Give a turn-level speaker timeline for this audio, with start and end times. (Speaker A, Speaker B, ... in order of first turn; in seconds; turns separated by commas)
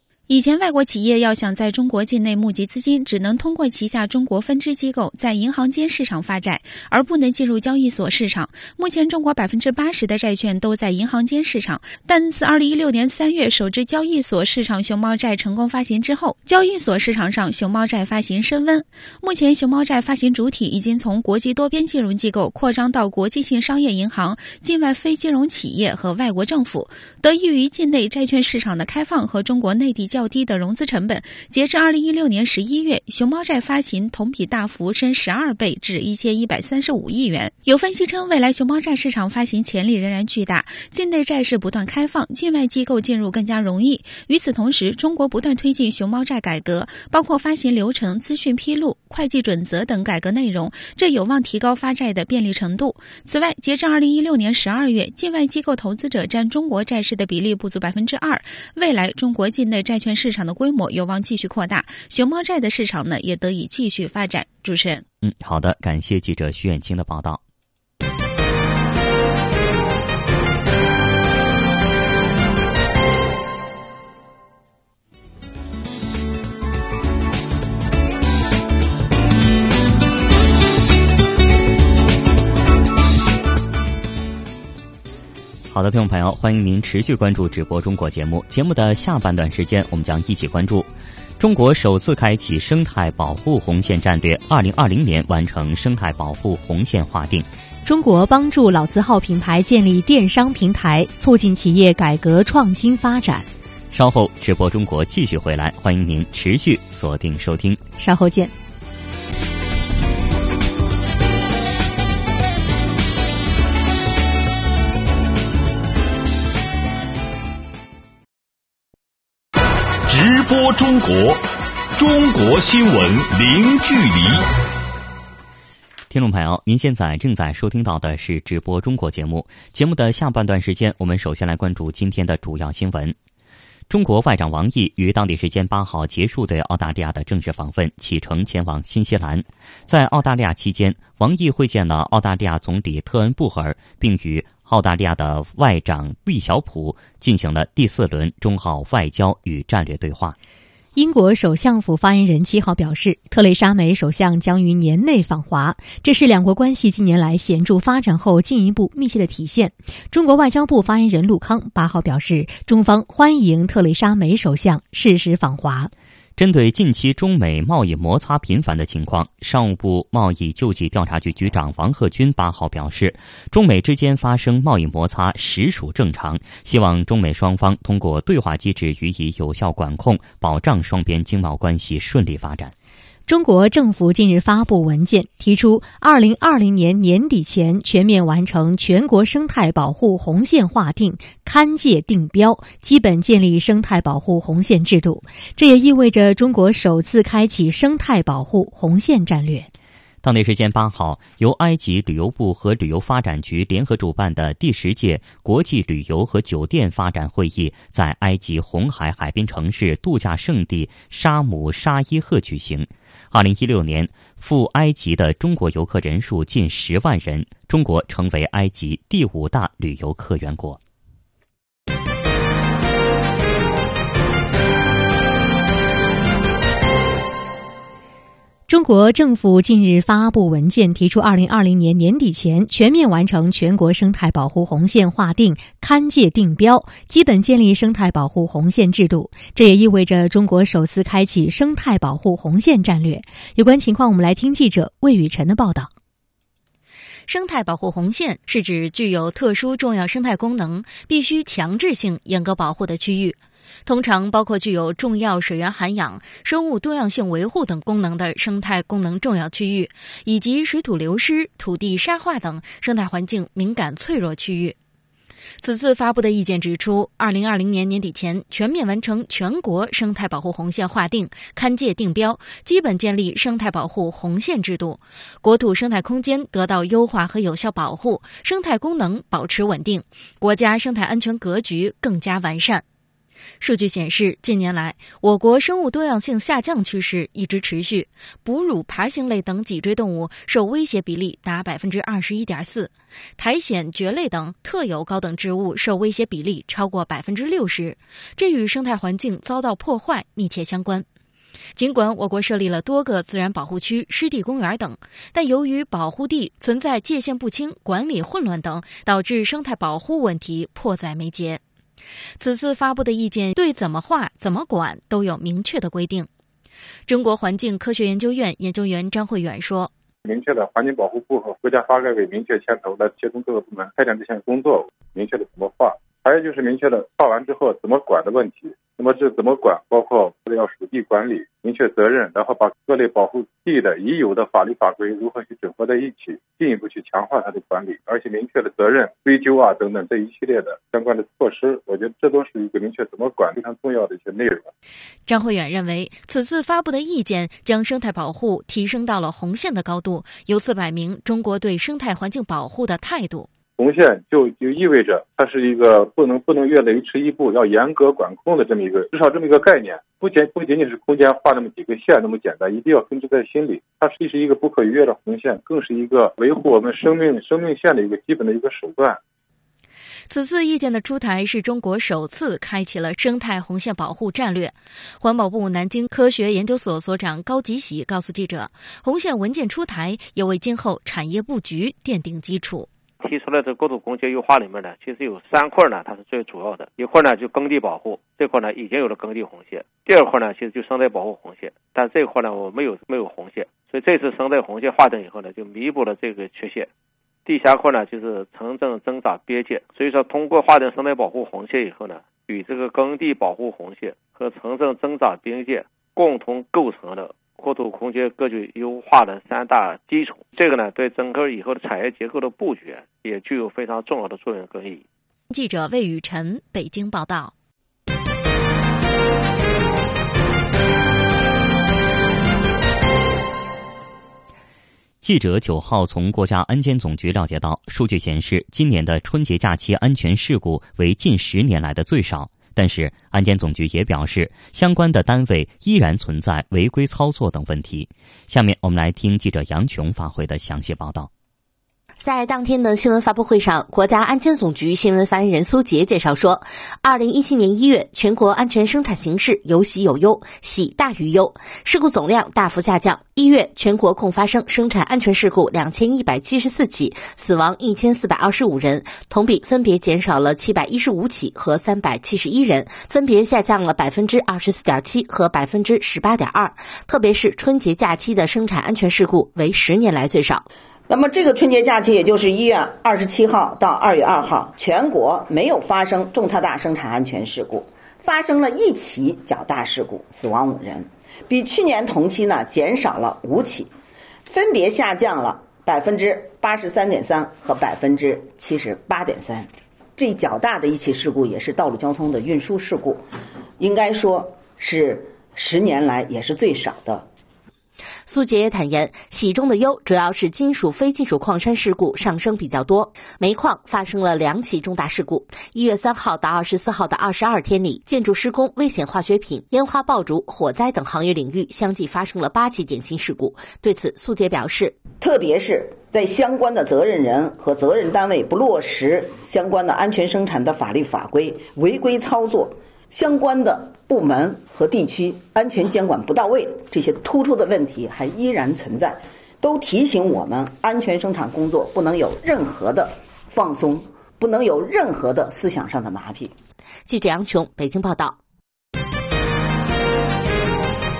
Speaker A: 0.3-65.0, Speaker B: 65.2-67.4, Speaker B: 85.7-97.5, Speaker C: 97.8-103.5, Speaker B: 103.9-107.8, Speaker C: 108.0-108.5, Speaker D: 120.0-124.5, Speaker B: 126.1-133.2, Speaker B: 133.9-150.3, Speaker C: 150.9-165.9, Speaker B: 166.4-182.7, Speaker C: 183.3-199.7, Speaker B: 200.2-220.8, Speaker C: 228.7-245.9, Speaker E: 247.3-264.8, Speaker E: 265.6-282.8, Speaker E: 283.6-301.1, Speaker E: 301.8-311.6, Speaker E: 312.4-316.3, Speaker E: 317.1-319.9, Speaker F: 320.2-344.7, Speaker E: 345.2-353.5, Speaker F: 353.8-369.2, Speaker E: 370.3-382.9, Speaker G: 383.2-396.9, Speaker G: 397.4-415.0, Speaker E: 415.5-417.5, Speaker B: 425.2-441.3, Speaker H: 442.2-470.6, Speaker I: 471.1-483.9, Speaker I: 484.5-493.2, Speaker I: 493.8-497.3, Speaker H: 498.2-514.9, Speaker I: 515.2-536.5, Speaker H: 537.1-538.4